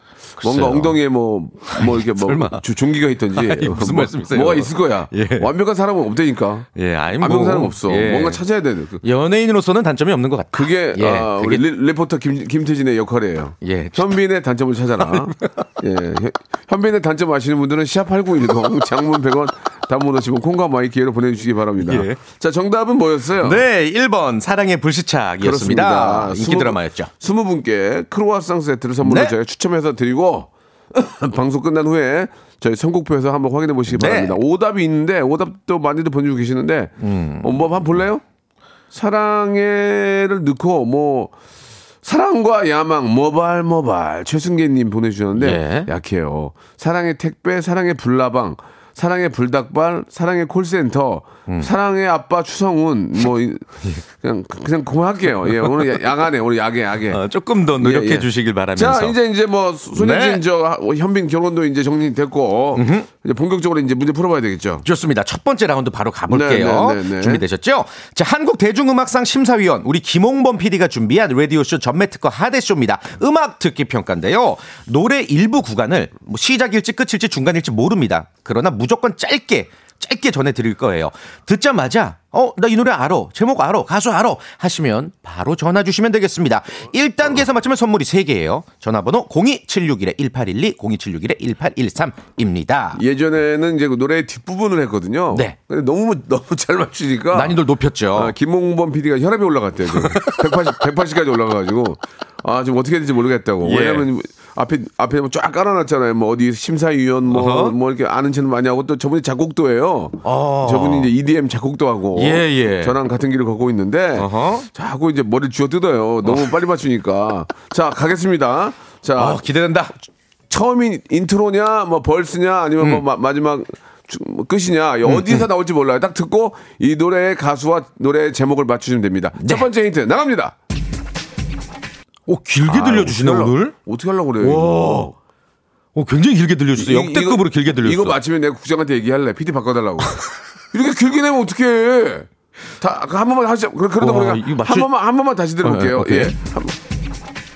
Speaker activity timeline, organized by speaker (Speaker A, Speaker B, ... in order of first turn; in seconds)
Speaker A: 0.4-1.0, 1.7-2.6, 3.3-5.5, 6.8-8.4, 9.0-11.7, 13.6-14.2, 15.0-15.5, 21.8-22.2, 23.4-27.1, 29.0-29.3, 33.9-34.3, 37.0-37.6, 45.4-45.9, 55.6-56.0, 57.1-59.1, 60.0-60.4, 62.8-63.1, 64.8-93.0, 97.3-98.3, 99.9-100.6, 103.6-104.1, 107.3-107.8, 110.2-111.1, 112.2-113.0, 114.2-114.7, 119.2-120.0, 125.1-125.5, 129.4-129.7, 132.3-133.8, 134.4-135.1, 135.9-138.2, 144.0-144.9, 145.6-146.3
Speaker B: 0.4-9.0, 10.5-23.6, 25.4-38.2, 38.9-41.3, 42.0-53.6, 54.2-57.2, 57.8-64.9, 66.3-67.4, 93.0-97.6, 98.1-119.5, 120.5-130.6, 132.7-135.1, 136.8-140.2, 140.7-142.3, 142.8-146.8